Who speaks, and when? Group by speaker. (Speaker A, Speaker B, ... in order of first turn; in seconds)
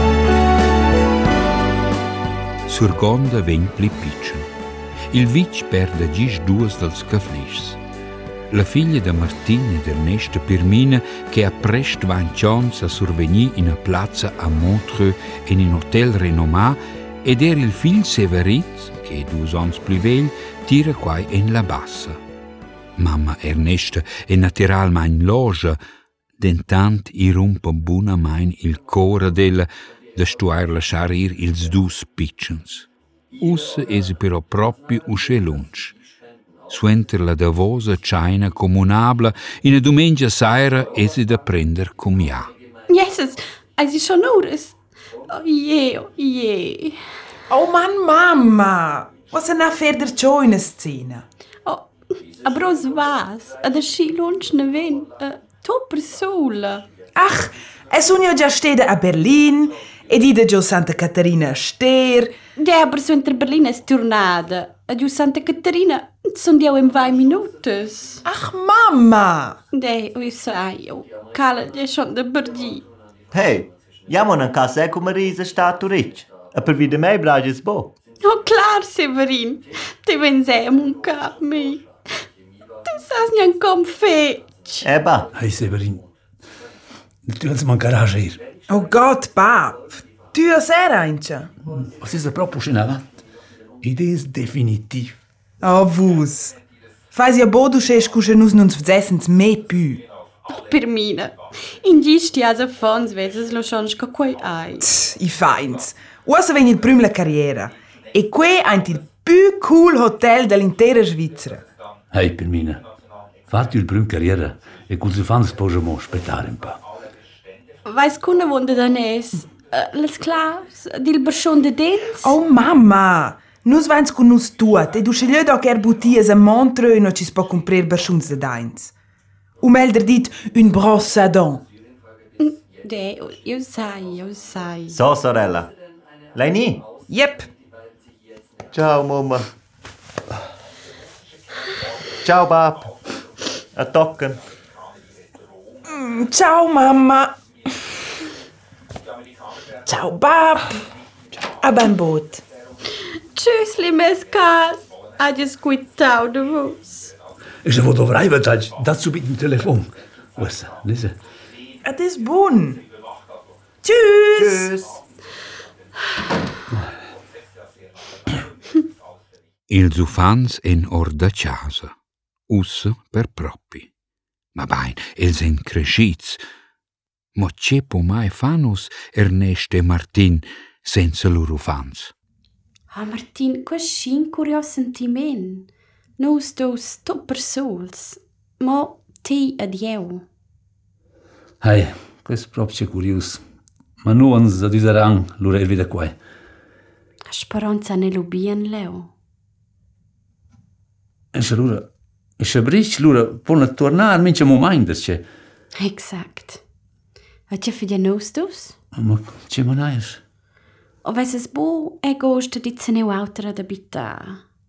Speaker A: 2.7-4.5, 5.1-7.8, 8.5-22.2, 23.0-25.8, 26.4-32.9, 33.4-36.0, 36.7-42.5, 169.7-171.9, 172.5-173.9, 174.6-176.4, 177.4-182.1
Speaker B: 42.9-44.8, 45.3-47.0, 51.6-56.8, 62.6-68.2, 69.7-72.8, 78.2-81.8, 82.9-84.8, 100.5-104.9, 117.8-122.3, 132.4-135.0, 153.3-157.1, 182.9-185.7, 186.2-190.2, 197.3-199.1, 205.8-206.6, 207.5-208.8, 211.0-214.4
Speaker C: 47.5-51.3, 57.1-62.3, 68.2-69.6, 88.7-91.5, 95.6-96.6, 97.1-100.1, 104.8-111.6, 122.2-128.9, 129.6-131.7, 137.1-137.5, 145.9-147.4, 149.9-150.8, 151.6-152.4, 161.8-162.8, 163.8-164.9
Speaker D: 73.3-77.9, 84.8-85.3, 134.9-135.7, 136.3-136.8, 138.7-139.5, 142.2-142.9, 143.7-144.4
Speaker E: 85.3-86.0, 87.2-88.4, 91.7-93.2, 93.8-95.2, 112.1-112.8, 113.5-116.8, 157.6-161.2, 191.6-193.4, 194.0-196.2, 201.3-201.9, 202.4-205.2, 208.9-210.2